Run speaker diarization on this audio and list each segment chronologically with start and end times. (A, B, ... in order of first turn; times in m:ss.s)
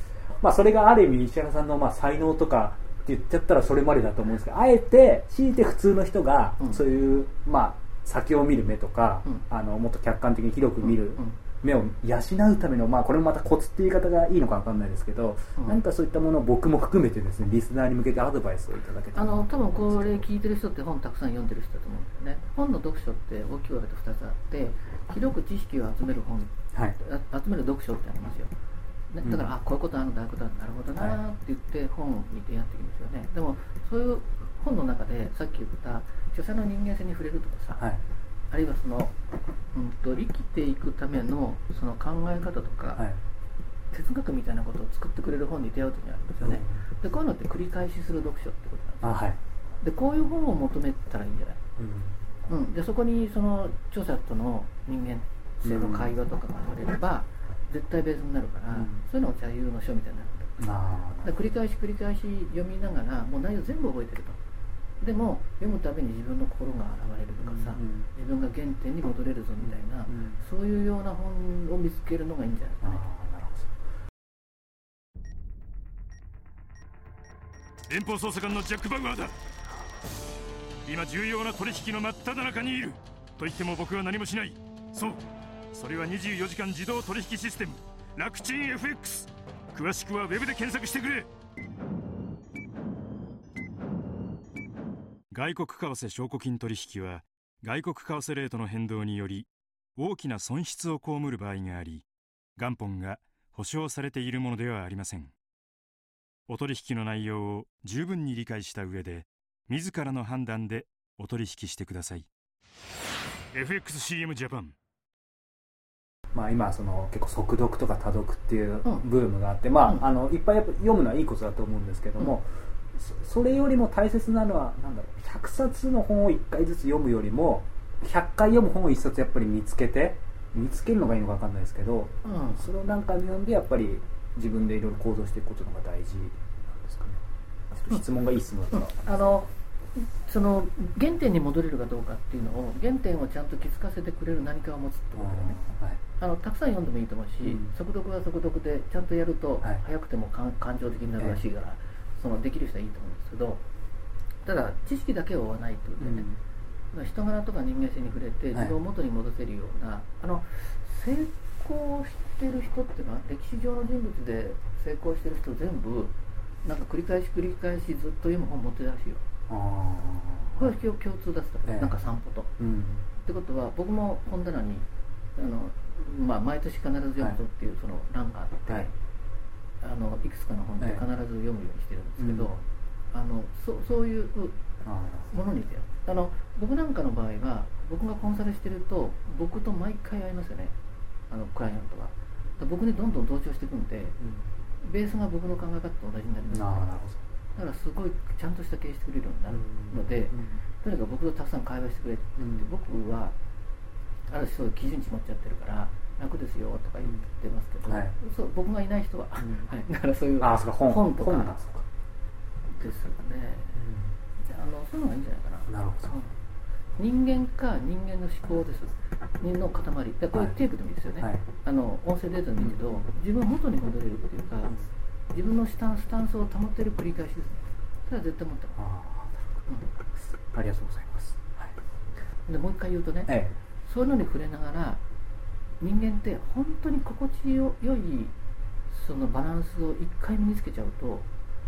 0:00.4-0:20.2 A
0:10.8-0:11.4 B
0:19.1-0:28.5 B
0:29.1-0:37.8 B
0:38.5-0:39.1 B
0:39.7-0:43.1 B
0:42.9-0:43.2 A
0:43.9-0:49.2 B
0:46.4-0:46.8 A
0:49.0-0:49.4 A
0:49.8-0:51.6 B
0:51.8-0:52.2 A
0:52.5-1:00.6 B
0:55.6-0:56.1 A
0:58.7-0:59.0 A
1:00.6-1:01.4 A
1:01.2-1:04.4 B
1:05.0-1:13.0 B
1:07.4-1:08.1 A
1:09.6-1:10.4 A
1:12.8-1:13.7 A
1:17.9-1:19.3 C
1:20.8-1:31.3 C
1:35.3-1:42.0 C
1:42.6-1:45.3 C
1:46.5-1:52.3 C
1:53.5-1:54.7 C
1:56.3-2:19.0 A
2:12.2-2:12.6 B
2:18.7-2:25.6 B
2:25.2-2:26.0 A
2:26.2-2:33.6 B
2:27.4-2:27.7 A
2:34.4-2:36.3 B
2:36.0-2:36.4 A
2:36.9-2:49.2 B
2:49.5-2:50.7 A
2:50.6-2:52.5 B
2:51.7-2:52.0 A
2:52.6-2:53.0 A
2:53.2-2:58.9 B
2:59.8-3:02.6 B
3:00.8-3:01.0 A
3:02.2-3:02.6 A
3:03.1-3:04.6 B
3:04.8-3:05.3 A
3:05.3-3:10.8 B
3:11.3-3:14.2 B
3:14.2-3:14.5 A
3:14.8-3:17.0 B
3:16.5-3:17.2 A
3:17.6-3:23.4 B
3:19.5-3:20.6 A
3:22.4-3:22.6 A
3:24.3-3:31.6 B
3:27.8-3:28.2 A
3:29.4-3:29.7 A
3:30.4-3:31.8 A
3:32.7-3:33.8 B
3:33.8-3:34.1 A
3:34.4-3:36.3 B
3:35.7-3:36.1 A
3:37.0-3:44.7 B
3:40.3-3:40.6 A
3:41.2-3:41.4 A
3:42.6-3:43.0 A
3:45.3-3:48.8 B
3:48.8-3:49.4 A
3:49.7-3:49.9 B
3:50.5-3:51.8 A
3:52.5-3:55.0 B
3:53.3-3:53.5 A
3:55.8-3:58.3 B
3:58.9-4:01.3 B